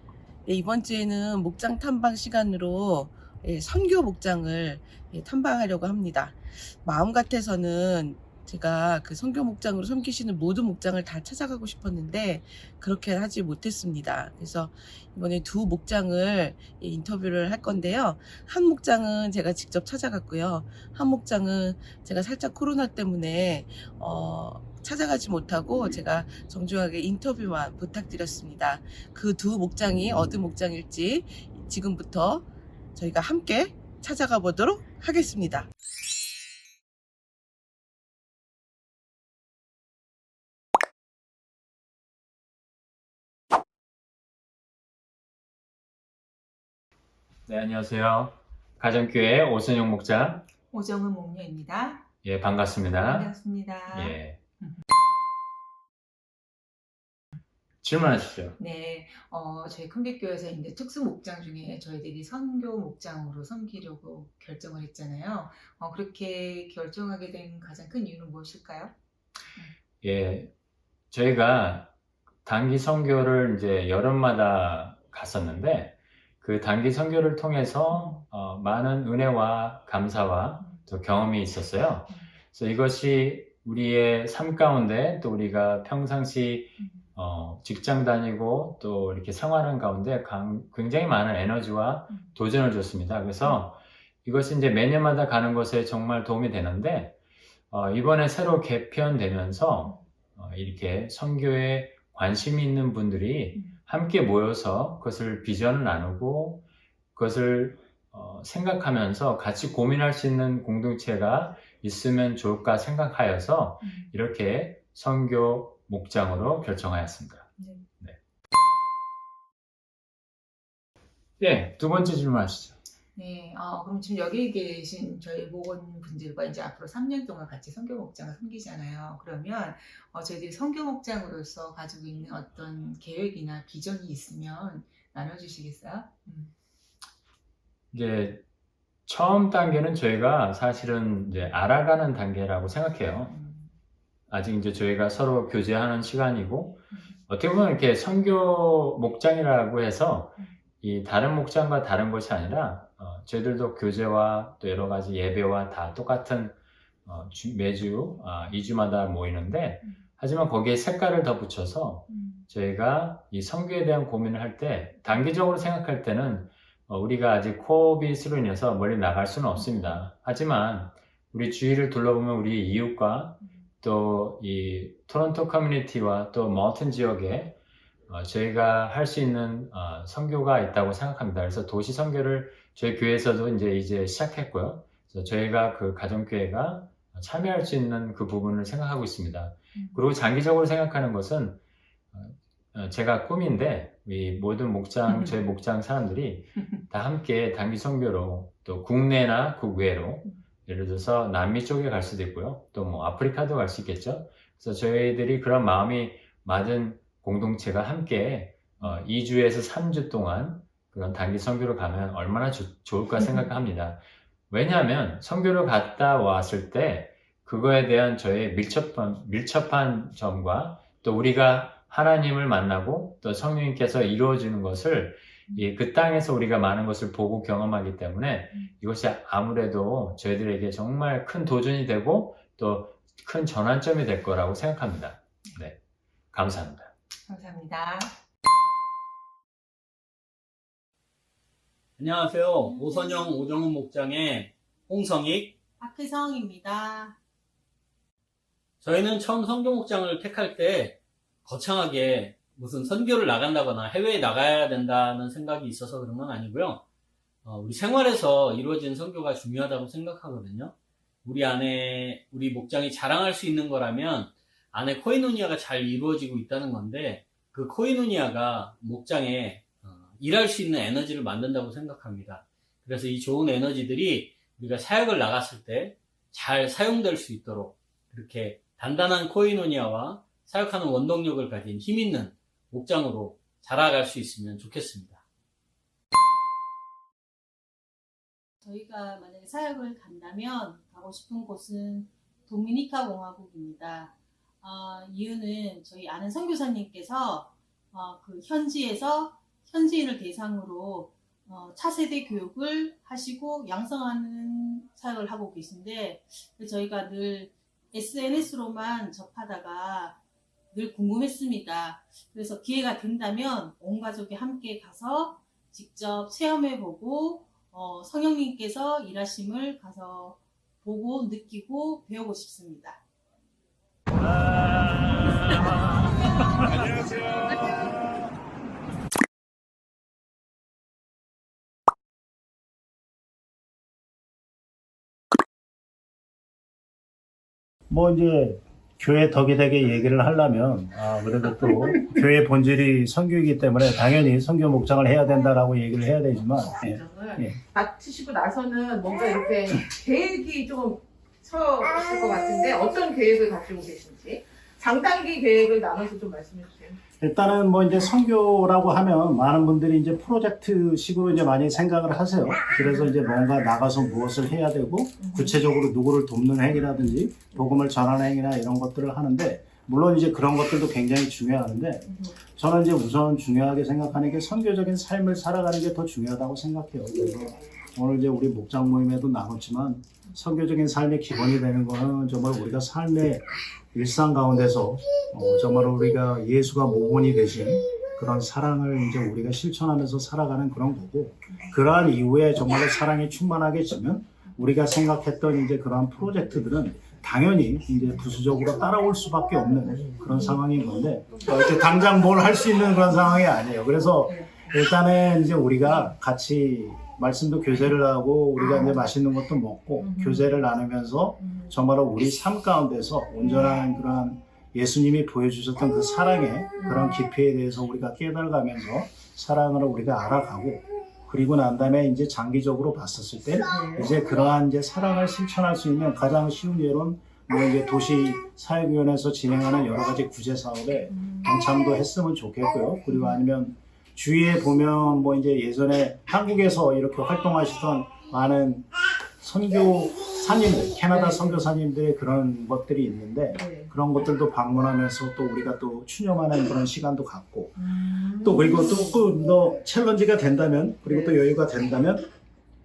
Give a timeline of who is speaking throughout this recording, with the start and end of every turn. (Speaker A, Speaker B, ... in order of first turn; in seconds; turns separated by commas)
Speaker A: 0.4-32.4, Speaker A: 33.0-35.7, Speaker B: 47.5-50.5, Speaker C: 50.7-52.0, Speaker B: 52.2-54.4, Speaker C: 52.9-54.8, Speaker B: 57.8-58.5, Speaker C: 58.5-68.9, Speaker B: 70.0-70.5, Speaker B: 71.1-97.2, Speaker C: 77.9-78.2, Speaker B: 97.7-118.2, Speaker C: 113.8-114.1, Speaker C: 117.6-117.8, Speaker B: 121.4-122.8, Speaker C: 123.1-136.5, Speaker B: 137.9-138.4, Speaker B: 139.1-143.3, Speaker C: 143.2-143.7, Speaker B: 144.3-177.6, Speaker C: 162.1-162.4, Speaker C: 169.6-169.9, Speaker B: 178.1-191.6, Speaker B: 192.1-235.8, Speaker B: 236.3-236.9, Speaker C: 237.2-238.1, Speaker D: 242.0-242.8, Speaker E: 242.6-243.2, Speaker D: 243.5-245.5, Speaker E: 245.8-247.2, Speaker D: 248.8-256.8, Speaker D: 257.4-260.7, Speaker D: 261.2-285.2, Speaker E: 288.6-310.2, Speaker E: 310.7-323.0, Speaker F: 337.9-347.6, Speaker G: 346.8-357.0, Speaker F: 357.2-452.2, Speaker G: 362.8-363.1, Speaker G: 365.2-365.6, Speaker G: 367.5-367.8, Speaker G: 372.0-372.3, Speaker G: 410.0-410.6, Speaker G: 413.4-413.8, Speaker G: 416.8-417.2, Speaker G: 423.7-424.1, Speaker G: 441.1-441.7, Speaker G: 443.5-443.9, Speaker G: 447.8-449.2, Speaker G: 451.0-451.4